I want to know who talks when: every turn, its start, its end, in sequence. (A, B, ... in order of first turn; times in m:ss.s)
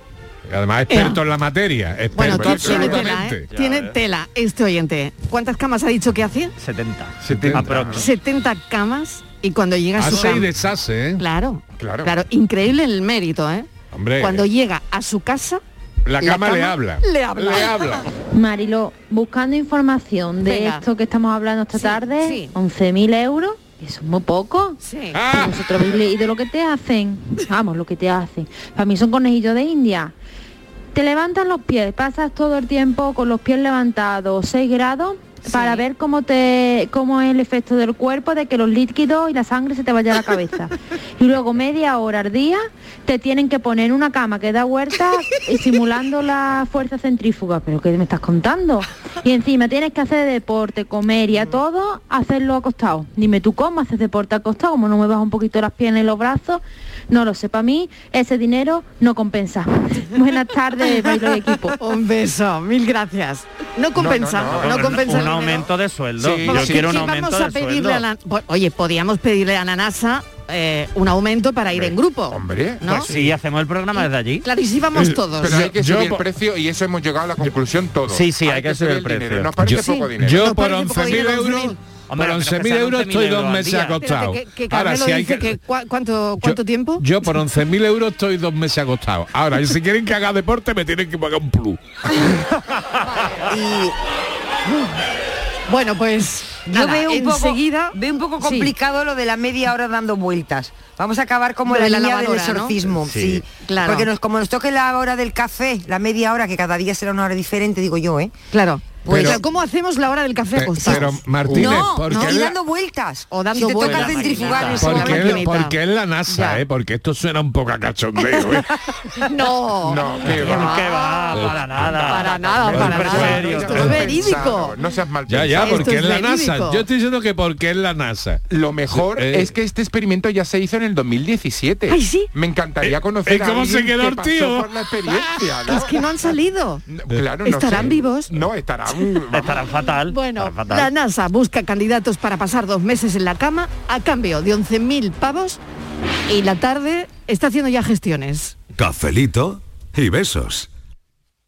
0:00.5-0:03.5 A
0:00.9-0:01.2 B
0:02.1-0:06.5 B
0:02.4-0:02.9 C
0:03.5-0:03.9 D
0:06.6-0:08.0 D
0:07.2-0:08.0 A
0:07.3-0:07.8 C
0:07.9-0:10.5 B
0:10.0-0:11.2 A
0:11.2-0:15.6 B
0:11.8-0:12.1 C
0:13.9-0:14.4 A
0:16.0-0:18.0 A
0:16.2-0:18.0 B
0:18.3-0:30.1 E
0:20.4-0:20.8 B
0:21.7-0:22.5 B
0:24.8-0:25.2 B
0:25.1-0:25.7 A
0:30.9-1:01.8 E
0:35.5-0:35.8 B
1:01.8-1:05.7 B
1:04.0-1:05.6 C
1:04.6-1:08.0 D
1:06.2-1:07.1 C
1:06.4-1:13.1 B
1:11.7-1:12.8 C
1:12.9-1:14.4 D
1:14.0-1:15.6 B
1:15.0-1:16.3 A
1:15.4-1:20.5 C
1:18.1-1:19.5 D
1:19.6-1:21.8 B
1:19.7-1:25.6 A
1:22.1-1:24.0 D
1:24.0-1:27.0 B
1:26.4-1:31.8 A
1:33.5-1:33.9 F
1:35.7-1:38.7 B
1:36.7-1:48.3 F
1:41.7-1:42.9 B
1:43.1-1:43.4 D
1:43.6-1:44.1 B
1:48.5-1:52.4 B
1:49.0-1:49.4 F
1:49.1-1:49.4 A
1:50.5-1:52.5 A
1:51.5-1:55.4 F
1:53.3-1:55.8 B
1:53.8-1:54.9 D
1:54.8-1:58.7 A
1:56.3-1:56.6 B
1:59.2-2:01.4 B
1:59.8-2:00.9 C
2:00.3-2:04.0 D
2:01.3-2:04.1 A
2:02.0-2:04.8 B
2:02.7-2:06.0 C
2:05.3-2:09.5 A
2:05.6-2:06.8 B
2:08.5-2:16.0 C
2:11.9-2:12.3 B
2:12.8-2:15.3 A
2:15.6-2:16.8 B
2:16.9-2:19.7 C
2:17.4-2:18.3 B
2:19.3-2:20.9 D
2:20.1-2:25.6 B
2:26.3-2:28.5 B